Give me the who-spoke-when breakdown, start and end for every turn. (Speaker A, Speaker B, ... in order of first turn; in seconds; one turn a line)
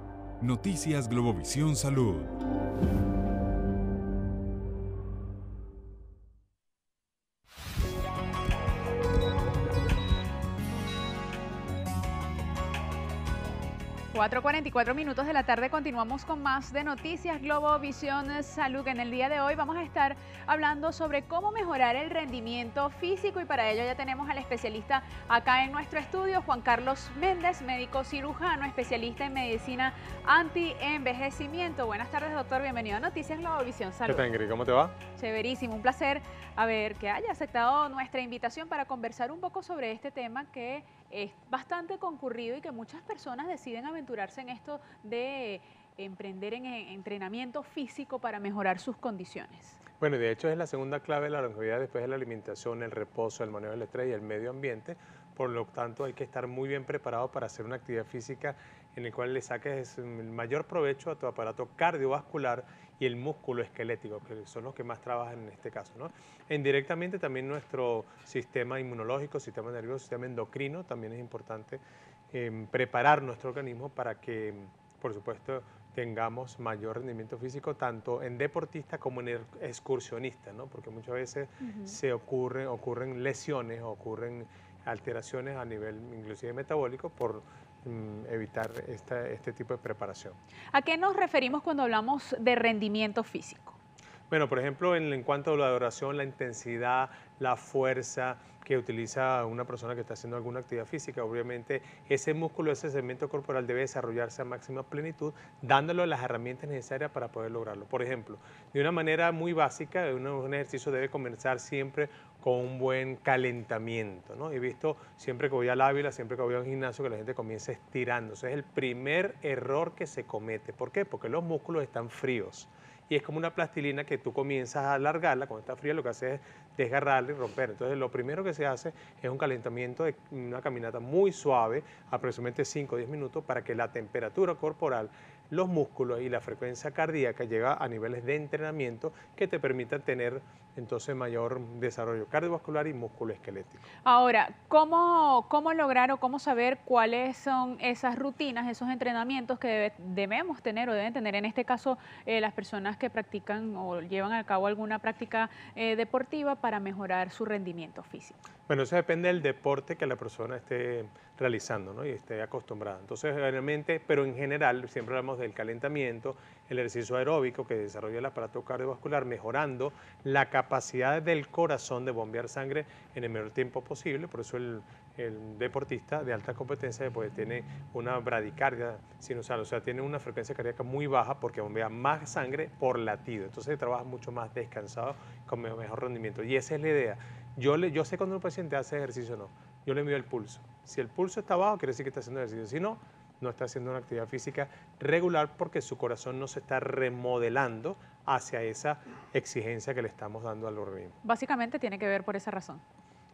Speaker A: 0.4-2.4
Speaker B: 14.1-34.3
Speaker C: 34.1-35.0
Speaker B: 35.1-49.8
Speaker C: 50.0-71.8
Speaker C: 72.3-90.4
Speaker B: 81.7-82.0
Speaker B: 90.7-93.8
Speaker C: 94.3-143.9
Speaker B: 144.1-158.4
Speaker C: 158.7-201.2
Speaker B: 201.2-202.8